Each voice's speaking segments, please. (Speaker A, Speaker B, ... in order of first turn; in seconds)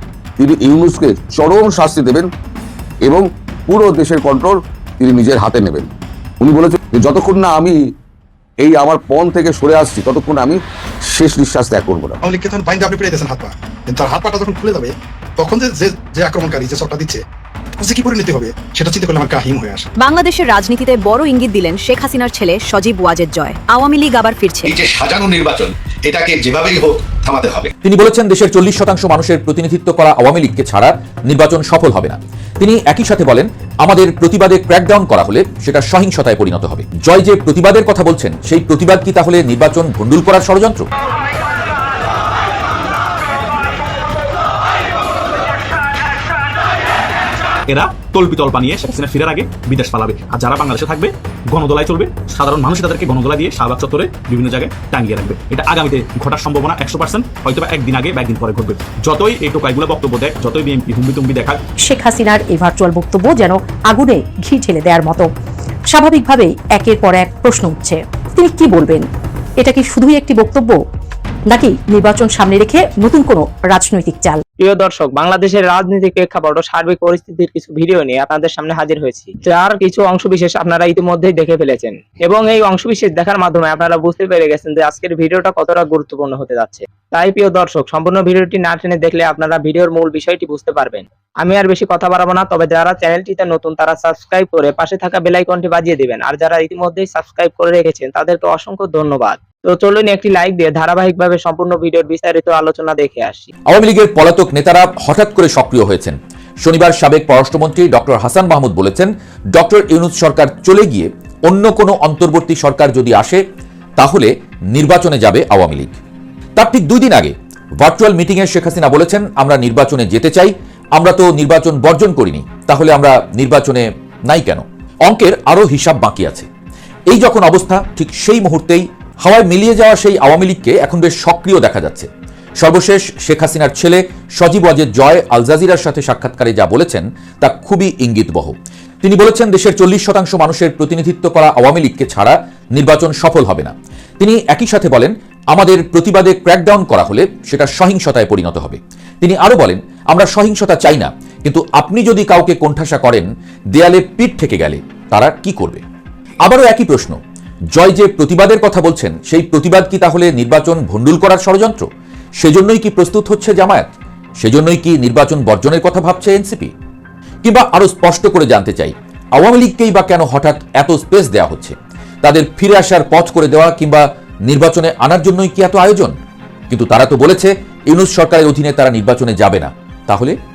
Speaker A: 0.4-2.3, 3.0-5.9, 6.4-7.8, 8.6-12.2
Speaker B: 12.2-17.2, 17.8-19.9
Speaker C: 20.0-24.7
Speaker D: 24.6-27.7
Speaker E: 27.8-40.9, 103.7-113.4, 114.0-115.9, 116.6-126.5, 127.1-132.1, 132.6-155.8, 156.4-157.2, 157.7-161.9, 162.4-163.9, 164.4-166.7, 167.4-176.1, 176.7-180.3
Speaker F: 47.7-61.6
Speaker G: 61.9-65.3, 65.9-69.1, 69.6-70.8, 71.5-74.4
Speaker H: 74.6-103.5